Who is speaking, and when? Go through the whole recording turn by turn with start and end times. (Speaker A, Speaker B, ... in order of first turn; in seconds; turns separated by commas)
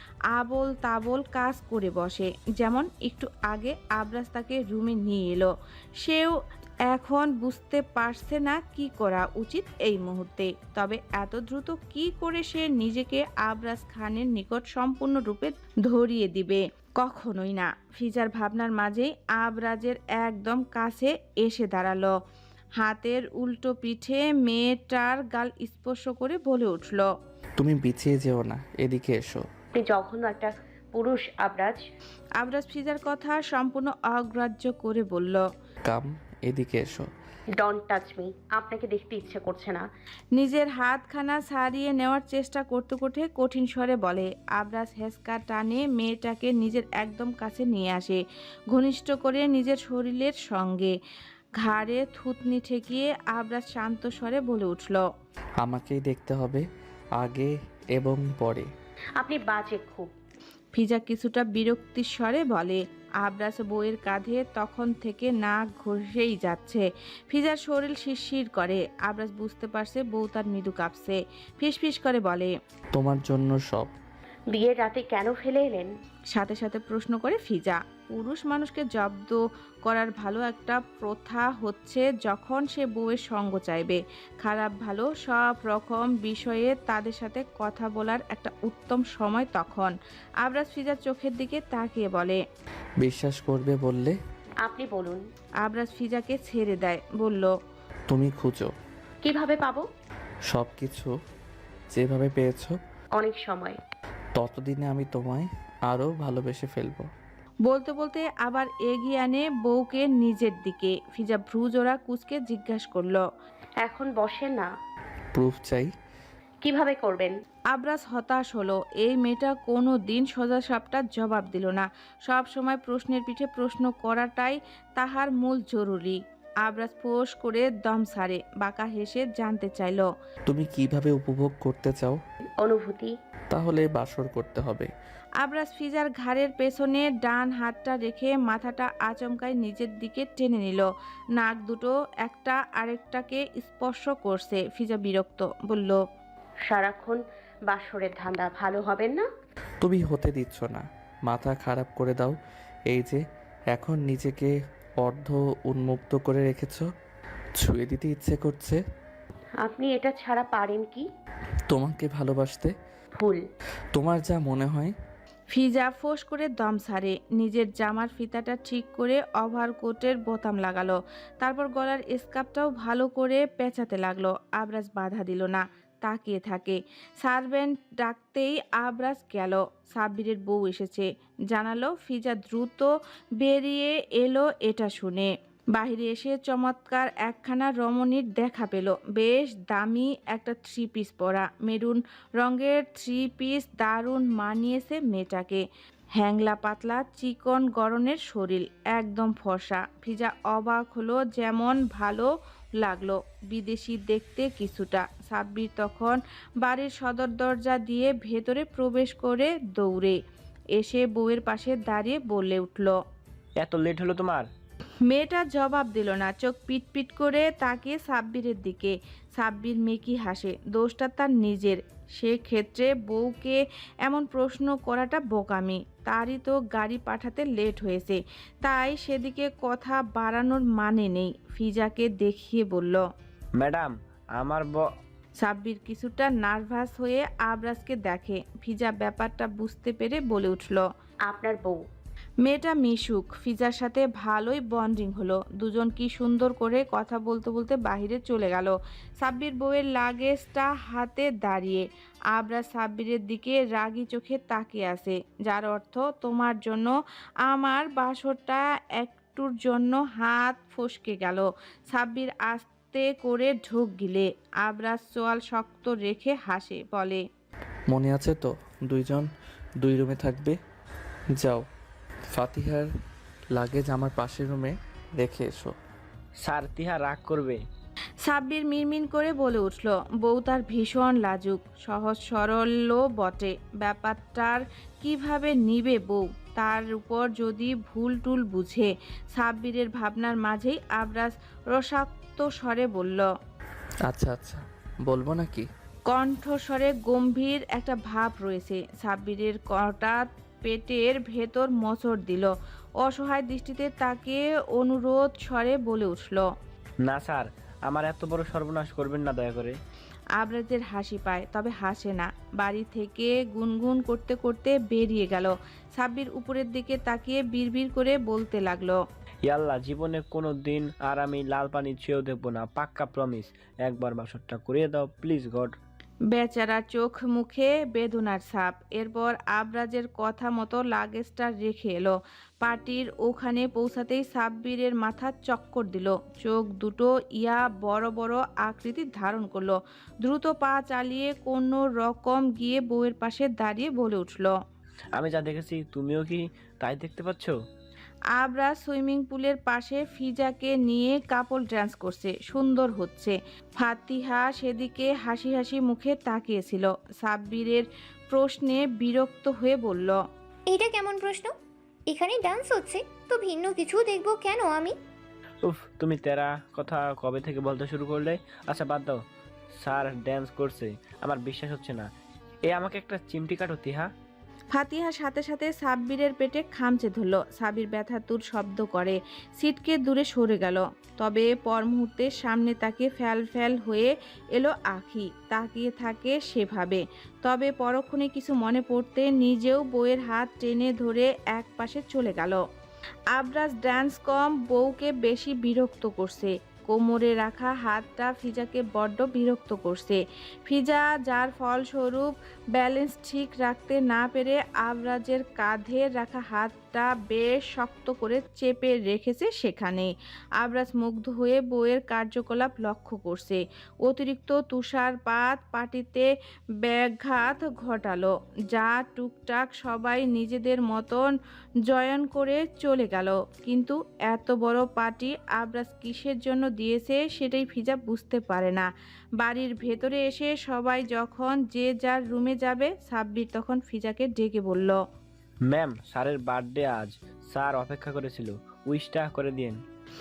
Speaker A: 0.3-6.3, Speaker A: 6.9-22.1, Speaker A: 22.8-27.1, Speaker B: 27.6-29.4, Speaker C: 29.7-31.8, Speaker A: 32.4-35.4, Speaker B: 35.9-37.1, Speaker C: 37.6-39.8, Speaker A: 40.4-50.9, Speaker A: 51.6-55.0, Speaker B: 55.6-56.6, Speaker B: 57.2-58.7, Speaker C: 59.2-60.1, Speaker A: 60.7-72.5, Speaker B: 72.9-73.9, Speaker C: 74.5-75.9, Speaker A: 76.3-92.4, Speaker B: 93.0-94.2, Speaker C: 94.6-95.2, Speaker A: 95.6-97.5, Speaker B: 98.1-98.7, Speaker C: 99.2-99.8, Speaker B: 100.5-101.1, Speaker B: 101.9-102.8, Speaker C: 103.2-103.8, Speaker B: 104.3-107.1, Speaker A: 107.7-113.2, Speaker C: 113.8-114.7, Speaker B: 115.3-115.9, Speaker C: 116.6-117.3, Speaker A: 117.7-130.1, Speaker B: 130.5-132.2, Speaker C: 132.6-133.1, Speaker B: 133.5-134.9, Speaker A: 135.4-140.8, Speaker A: 141.4-146.0, Speaker C: 146.7-149.3, Speaker B: 149.8-152.4, Speaker B: 152.9-153.2, Speaker B: 153.7-156.9, Speaker B: 157.6-158.8, Speaker C: 159.6-161.1, Speaker B: 161.7-162.7, Speaker C: 163.1-163.4, Speaker B: 163.9-164.9, Speaker A: 165.5-195.6, Speaker A: 196.2-210.2, Speaker A: 210.7-212.9, Speaker D: 213.6-214.5, Speaker A: 215.1-233.0, Speaker D: 233.6-234.8, Speaker A: 235.4-240.8, Speaker C: 241.3-241.8, Speaker A: 242.4-256.9, Speaker A: 257.4-267.2, Speaker B: 267.9-269.3, Speaker B: 269.8-270.6, Speaker B: 271.3-271.6, Speaker B: 272.3-272.9, Speaker B: 273.5-275.8, Speaker D: 276.4-277.6, Speaker A: 278.2-293.3, Speaker B: 294.0-295.7, Speaker A: 296.1-306.4, Speaker D: 307.0-309.8, Speaker A: 310.4-319.0, Speaker D: 319.4-325.8, Speaker A: 326.3-344.5, Speaker D: 345.1-347.5, Speaker A: 348.3-360.2, Speaker E: 360.7-361.5, Speaker E: 362.1-364.9, Speaker D: 365.6-369.2, Speaker D: 369.8-372.1, Speaker D: 372.7-374.1, Speaker A: 374.7-392.6, Speaker A: 393.3-416.3, Speaker A: 416.8-421.3, Speaker A: 421.9-428.9, Speaker A: 429.4-435.0, Speaker D: 435.7-439.8